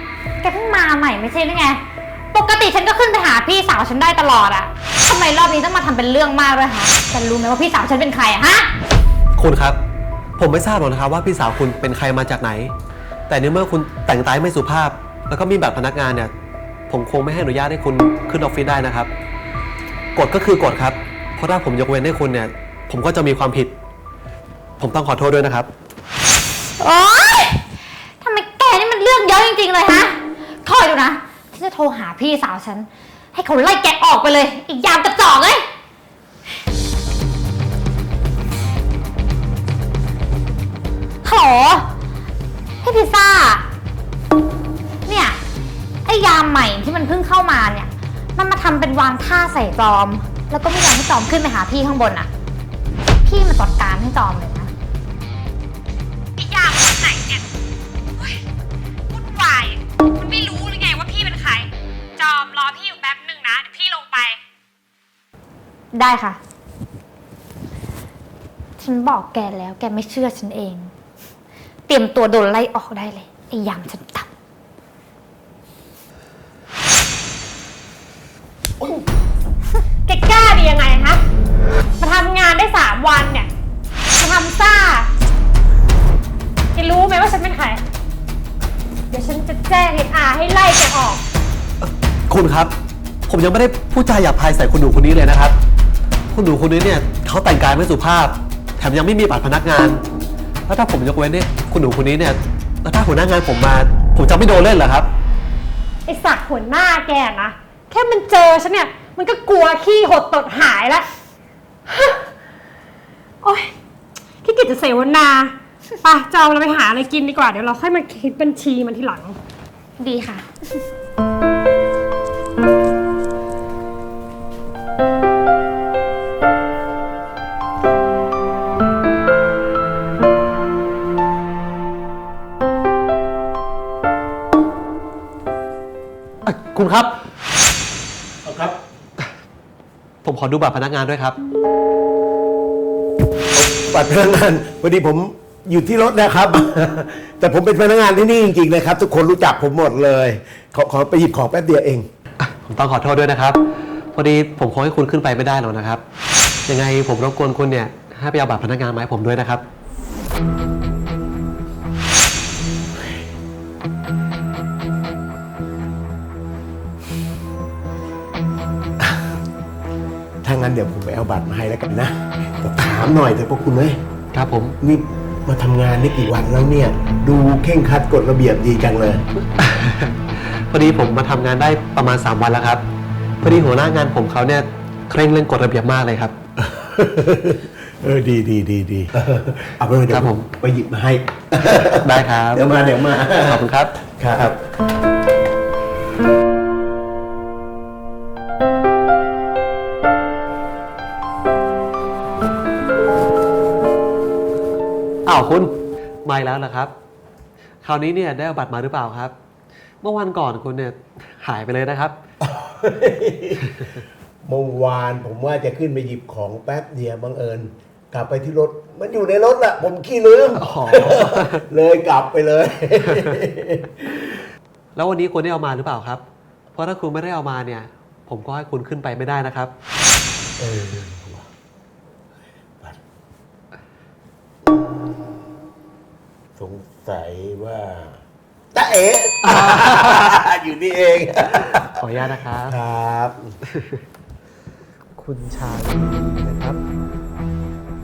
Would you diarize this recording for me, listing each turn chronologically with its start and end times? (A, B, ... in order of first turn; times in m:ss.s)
0:00.4-0:08.7 A
0:09.4-0:09.8 B
0:10.4-0:12.7 B
0:13.3-0:16.3 B
0:16.9-0:19.1 B
0:20.1-0:23.7 B
0:24.8-0:25.7 B
0:26.8-0:27.6 A
0:28.2-0:35.6 A
0:41.2-0:41.9 A
0:42.8-0:43.6 A
0:45.0-0:45.4 A
0:46.0-0:52.3 A
0:53.2-0:54.7 A
0:56.4-0:57.4 C
0:58.2-0:58.4 C
0:59.1-1:04.4 C
1:05.9-1:06.4 A
1:08.8-1:10.9 A
1:11.9-1:14.3 A
1:20.0-1:21.2 C
1:22.0-1:23.5 C
1:24.2-1:25.1 C
1:26.7-1:27.8 C
1:29.1-1:31.2 C
1:31.8-1:32.7 B
1:33.3-1:35.5 B
1:36.3-1:40.0 B
1:40.7-1:45.1 B
1:46.0-1:51.1 C
1:51.9-1:52.2 C
1:53.4-1:53.7 C
1:54.4-1:59.4 C
2:00.0-2:00.8 A
2:16.4-2:17.2 B
2:18.4-2:18.8 D
2:20.2-2:21.4 B
2:23.5-2:32.1 D
2:32.4-2:33.6 B
2:34.1-2:36.0 B
2:36.7-2:39.6 B
2:50.4-2:54.0 D
2:54.3-2:54.8 B
2:54.8-2:59.2 D
2:59.6-3:02.8 B
3:03.4-3:06.3 B
3:06.6-3:14.7 D
3:10.1-3:10.5 B
3:11.8-3:12.6 B
3:13.3-3:14.0 B
3:25.2-3:25.7 B
3:26.2-3:26.9 B
3:27.8-3:29.3 B
3:30.0-3:32.2 B
3:32.4-3:33.9 D
3:34.4-3:44.4 D
3:40.5-3:41.6 B
3:44.9-3:49.7 B
3:50.6-3:51.5 D
3:54.7-3:55.1 D
3:56.6-3:58.2 D
3:58.7-4:02.0 D
3:59.4-4:00.3 B
4:01.4-4:02.8 B
4:02.6-4:03.6 D
4:03.7-4:04.0 B
4:05.2-4:06.8 B